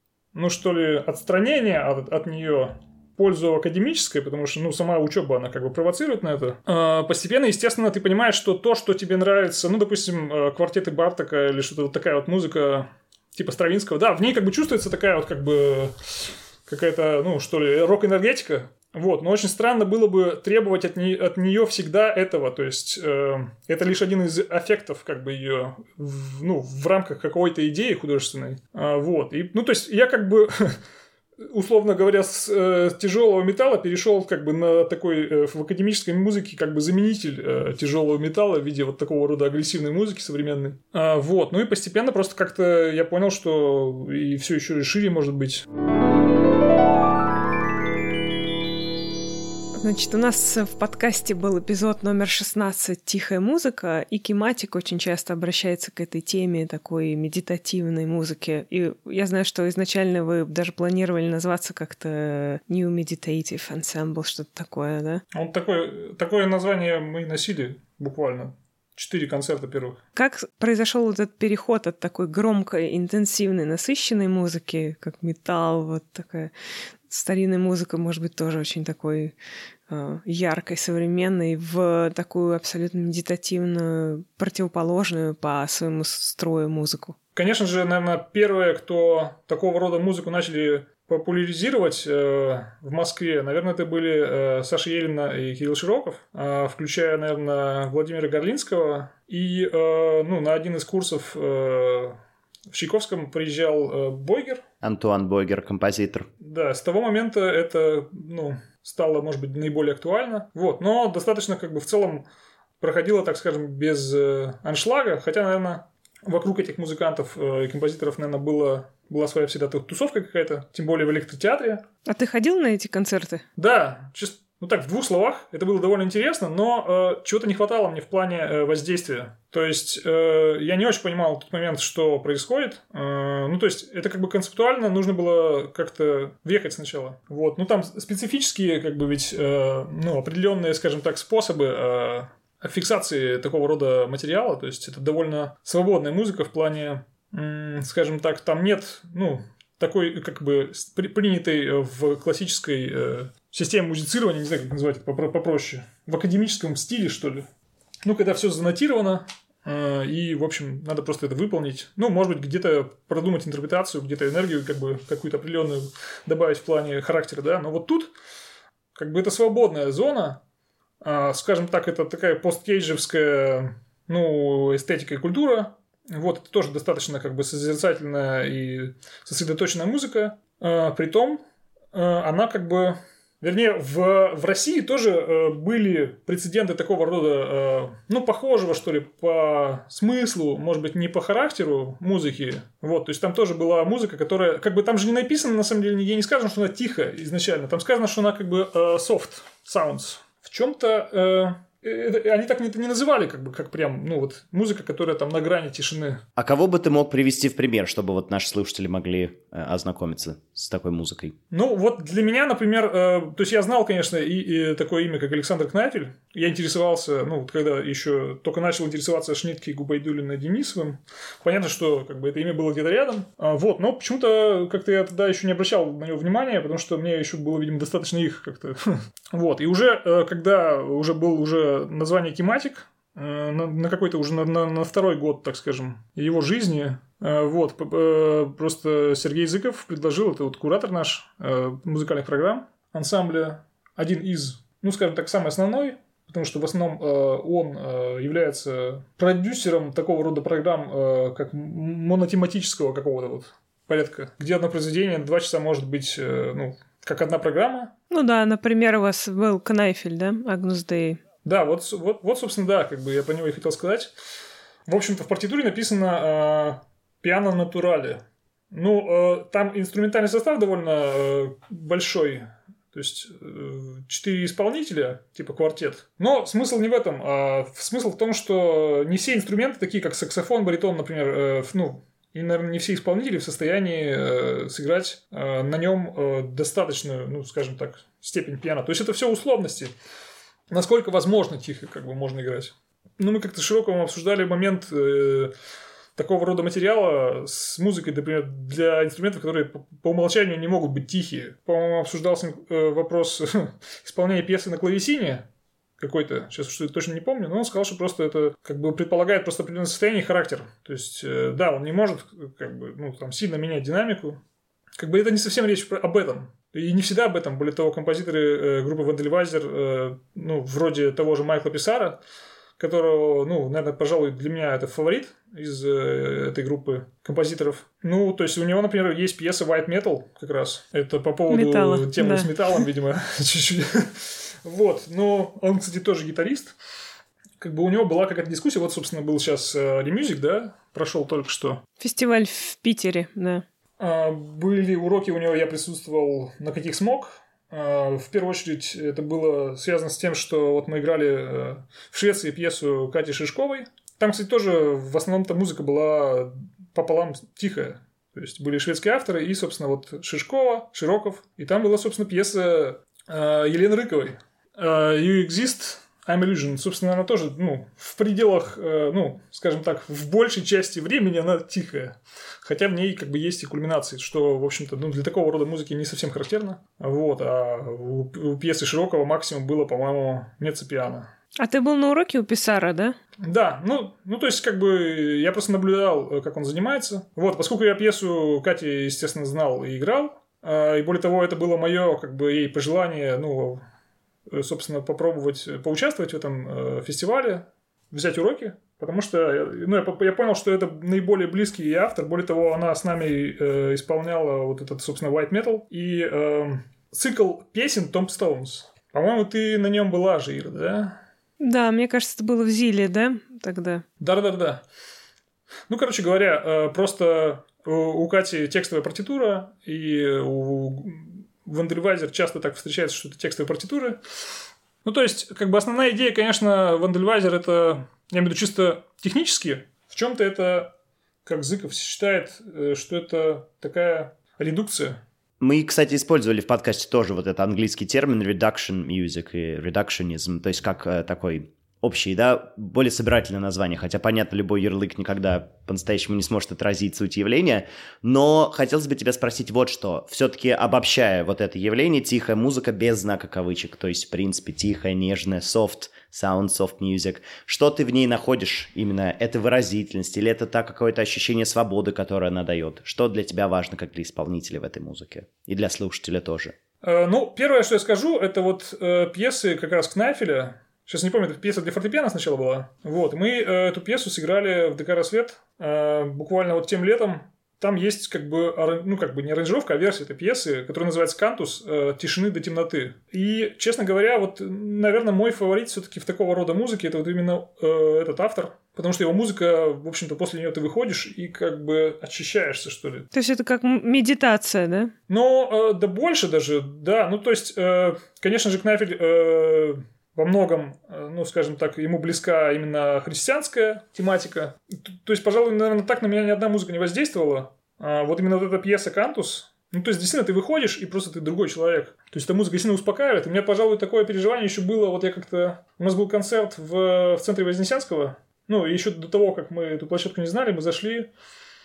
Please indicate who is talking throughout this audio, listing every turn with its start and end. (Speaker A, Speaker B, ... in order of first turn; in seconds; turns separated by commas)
Speaker A: 0.3-30.8, Speaker A: 31.4-45.6, Speaker B: 49.8-65.2, Speaker A: 65.3-70.0, Speaker B: 70.2-76.5, Speaker B: 77.1-79.3, Speaker B: 79.9-87.2, Speaker A: 87.3-102.2, Speaker A: 102.7-104.6, Speaker C: 104.8-106.3, Speaker A: 106.4-112.2, Speaker A: 112.8-121.8, Speaker B: 122.0-123.4, Speaker A: 123.6-157.4, Speaker A: 158.0-168.1, Speaker A: 168.9-170.4, Speaker A: 171.0-181.4, Speaker A: 181.9-206.2, Speaker C: 206.4-211.3, Speaker A: 211.5-257.9, Speaker B: 258.1-261.2, Speaker A: 261.4-264.1, Speaker A: 264.9-268.2, Speaker A: 268.7-289.9, Speaker A: 290.7-295.5, Speaker A: 296.2-305.4, Speaker A: 306.0-314.4, Speaker A: 315.0-322.2, Speaker A: 322.8-336.7, Speaker B: 331.5-332.8, Speaker A: 337.6-341.8, Speaker B: 342.0-343.6, Speaker A: 344.0-381.3, Speaker B: 381.6-383.1, Speaker A: 383.4-393.8, Speaker A: 394.5-411.2, Speaker B: 411.6-414.0, Speaker A: 414.2-414.8, Speaker A: 415.9-424.2, Speaker A: 425.0-430.9, Speaker A: 431.4-435.2, Speaker C: 435.6-466.7, Speaker A: 467.0-493.3, Speaker B: 493.3-495.1, Speaker A: 495.3-521.3